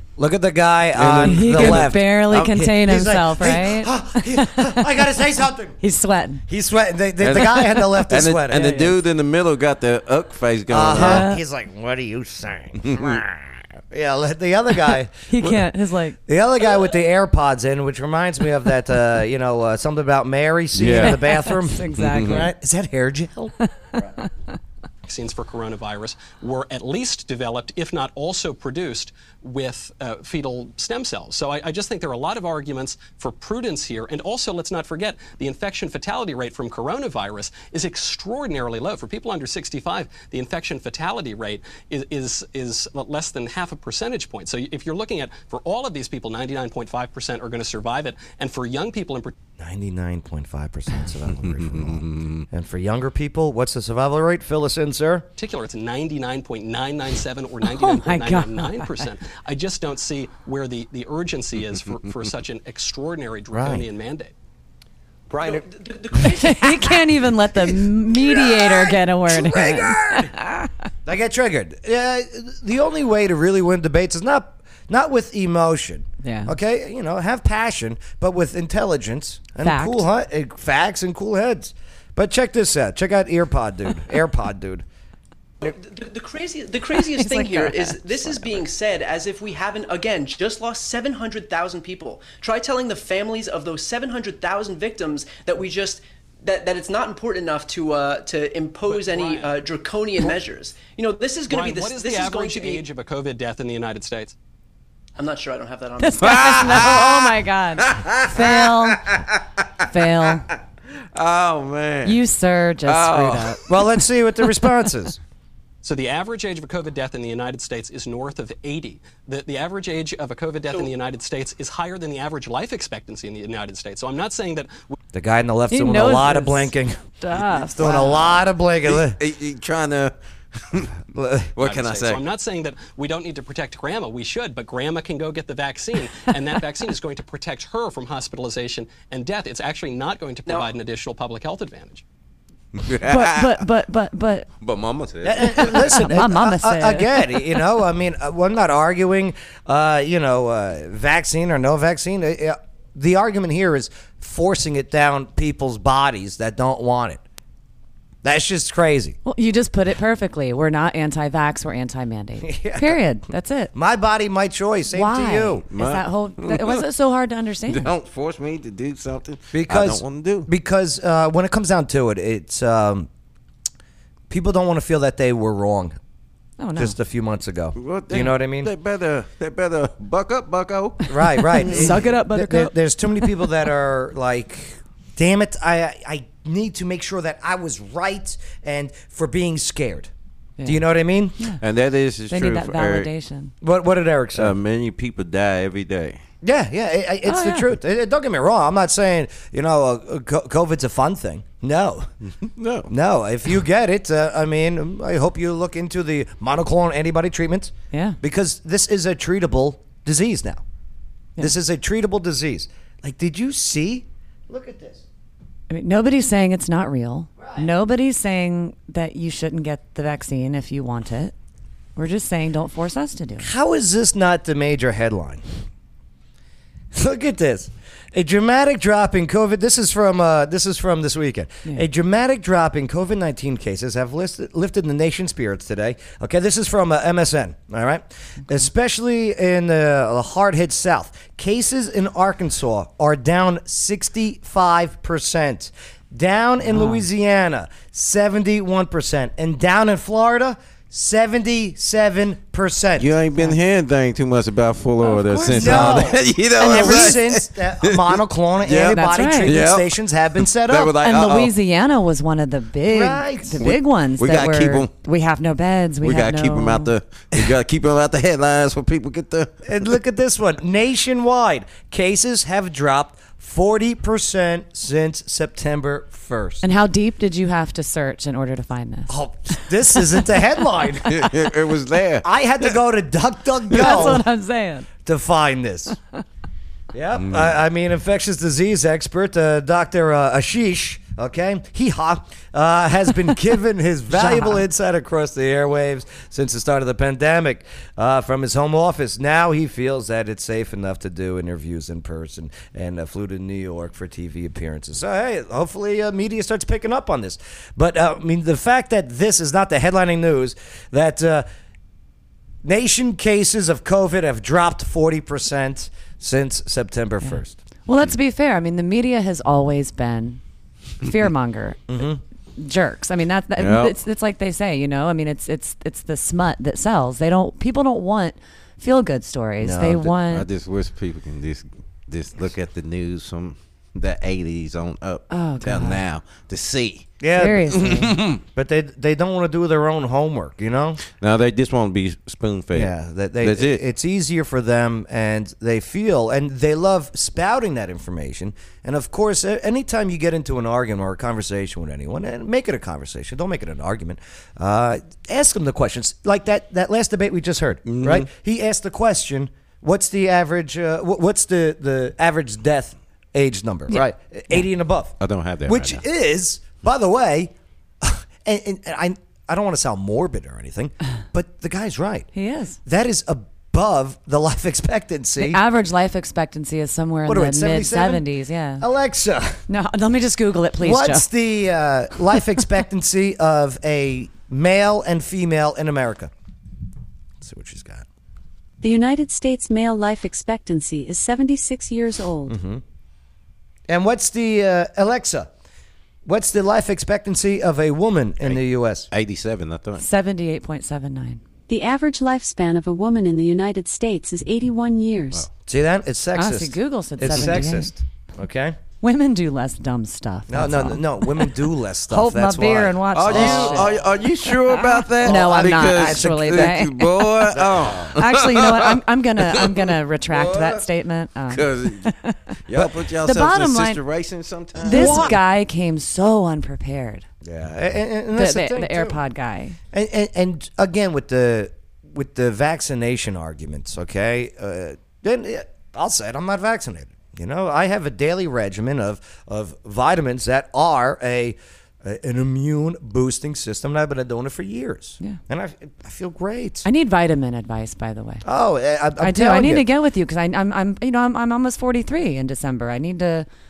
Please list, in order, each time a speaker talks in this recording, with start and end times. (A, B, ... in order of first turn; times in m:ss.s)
0:00.2-0:05.8 A
0:01.0-0:02.5 B
0:01.2-0:05.1 C
0:05.8-0:06.4 C
0:06.5-0:08.9 A
0:07.2-0:11.3 B
0:10.7-0:15.3 A
0:10.9-0:11.4 C
0:12.8-0:13.2 B
0:15.3-0:16.2 C
0:16.3-0:23.6 A
0:20.8-0:21.2 B
0:20.9-0:22.5 C
0:22.0-0:22.4 B
0:25.1-0:49.3 D
0:49.6-0:55.3 A
0:51.7-0:52.4 B
0:55.4-1:04.3 D
0:57.6-0:59.1 C
1:03.5-1:03.9 A
1:05.3-1:07.2 E
1:06.2-1:10.7 C
1:08.2-1:10.3 A
1:11.1-1:24.8 A
1:16.2-1:16.6 C
1:19.6-1:20.1 C
1:25.6-1:42.9 E
1:27.0-1:28.6 C
1:38.9-1:39.5 D
1:41.5-1:44.4 D
1:45.2-1:46.6 E
1:46.0-1:49.1 C
1:46.2-1:49.8 B
1:49.9-1:50.5 C
1:51.2-1:52.2 B
1:52.0-1:53.6 C
1:52.9-1:53.6 B
1:53.7-1:55.2 A
1:55.8-2:05.0 D
2:05.1-2:07.0 A
2:05.7-2:08.4 C
2:07.8-2:09.2 A
2:08.9-2:11.0 B
2:11.1-2:11.5 A
2:11.6-2:12.2 B
2:11.6-2:22.0 D
2:20.5-2:20.8 E
2:22.8-2:23.6 B
2:23.0-2:24.5 C
2:24.6-2:26.0 B
2:25.2-2:37.2 A
2:25.4-2:27.6 C
2:38.2-2:39.2 A
2:39.2-2:43.7 C
2:42.4-2:43.0 A
2:43.7-2:45.6 A
2:44.9-2:47.9 C
2:45.7-2:46.8 B
2:47.7-2:50.5 B
2:49.5-2:53.1 A
2:54.3-2:56.0 A
2:56.6-2:57.0 C
2:56.8-2:58.7 A
2:57.8-3:01.1 B
3:01.1-3:10.1 A
3:01.2-3:03.5 C
3:01.6-3:02.0 B
3:10.6-3:11.4 A
3:11.6-3:13.1 B
3:12.3-3:13.5 C
3:13.6-3:14.6 A
3:14.4-3:16.2 B
3:16.4-3:22.1 A
3:17.3-3:17.7 C
3:22.4-3:22.9 B
3:22.9-3:30.6 A
3:27.9-3:28.2 C
3:31.4-3:35.0 A
3:35.7-3:41.3 C
3:37.4-3:37.7 A
3:42.0-3:43.5 C
3:43.4-3:45.4 A
3:46.9-4:13.1 A
4:06.6-4:07.0 C
4:13.0-4:21.5 B
4:15.0-4:17.1 C
4:15.5-4:21.0 A
4:18.9-4:19.6 C
4:21.0-4:26.9 C
4:22.9-4:23.6 A
4:23.6-4:24.9 B
4:26.0-4:29.5 B
4:29.6-4:36.6 A
4:36.6-4:40.4 C
4:39.1-4:41.3 A
4:41.1-4:42.2 B
4:42.2-4:44.2 A
4:43.7-4:44.9 C
4:45.0-4:46.0 A
4:46.9-5:11.5 A
4:47.2-4:47.5 B
4:54.1-4:54.6 C
5:12.6-5:17.6 A
5:17.2-5:20.4 C
5:21.0-5:21.8 C
5:21.9-5:22.2 A
5:22.6-5:30.5 C
5:23.6-5:24.0 B
5:29.6-5:30.1 A
5:30.2-5:37.1 B
5:35.3-5:36.0 C
5:37.2-5:37.9 A
5:37.4-5:38.2 C
5:37.9-5:38.4 B
5:38.4-5:41.0 A
5:41.0-5:43.8 B
5:42.7-6:12.3 A
5:57.9-5:58.3 B
6:03.9-6:04.6 C
6:05.2-6:06.0 B
6:12.3-6:12.8 C
6:12.9-6:15.6 A
6:15.4-6:18.8 C
6:17.3-6:18.3 A
6:18.8-6:19.6 A
6:19.7-6:21.3 C
6:20.8-6:26.3 A
6:27.4-6:28.1 A
6:28.8-6:32.6 F
6:32.5-6:32.8 A
6:33.9-6:35.5 A
6:36.2-6:39.1 A
6:39.1-6:40.0 B
6:40.0-6:41.4 C
6:41.7-6:45.5 F
6:45.7-6:48.8 A
6:46.4-6:47.9 C
6:49.0-6:51.6 C
6:50.5-6:54.0 A
6:52.1-6:57.5 C
6:53.2-7:00.9 B
6:55.2-6:56.8 A
6:57.5-6:58.2 A
6:58.1-7:02.6 C
7:01.5-7:02.1 B
7:02.7-7:05.4 B
7:03.2-7:04.0 C
7:04.8-7:07.3 C
7:04.9-7:05.3 A
7:07.4-7:09.2 A
7:08.4-7:09.8 C
7:09.9-7:26.9 A
7:26.8-7:28.4 C
7:28.4-7:29.9 A
7:29.2-7:33.5 C